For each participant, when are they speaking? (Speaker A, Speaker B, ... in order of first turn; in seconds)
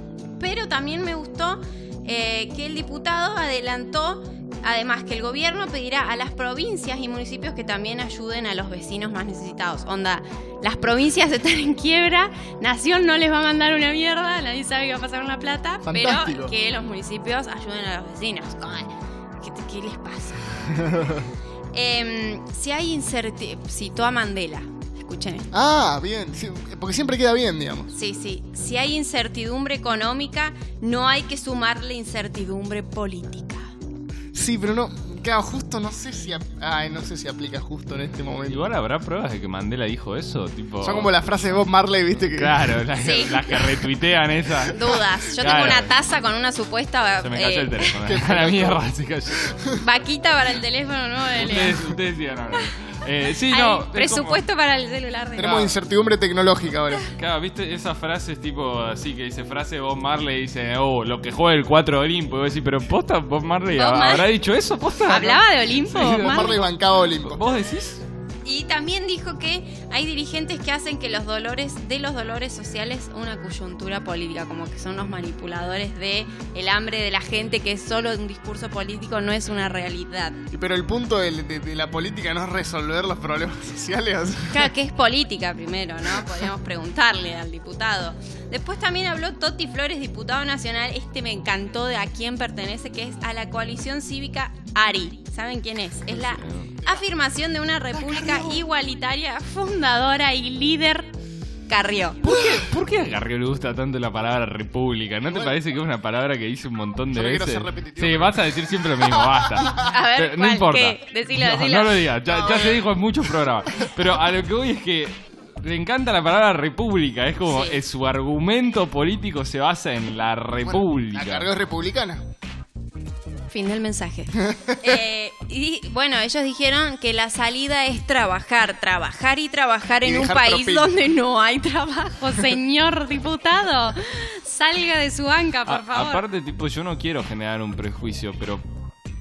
Speaker A: 0.4-20.6, 21.7-25.5, 27.9-33.7, 43.0-43.6, 44.6-48.0, 49.8-51.8, 53.4-55.6, 63.7-64.3, 65.0-66.6, 68.5-80.4, 84.5-101.1, 101.7-102.4, 109.7-112.9, 117.5-117.8, 123.5-136.2
Speaker B: 15.8-16.5, 20.7-21.2, 25.5-27.9, 34.3-38.6, 40.8-42.8, 48.0-48.8, 49.5-49.8, 55.4-57.1, 66.0-67.4, 80.5-84.7, 97.9-98.6, 105.3-105.6, 107.1-108.5, 109.2-109.6, 120.6-122.2, 124.5-124.8, 130.0-130.9
Speaker C: 38.5-41.6, 42.3-45.9, 47.2-49.5, 51.3-54.4, 55.4-55.8, 57.1-68.0, 96.1-96.8, 102.2-121.5, 135.7-138.6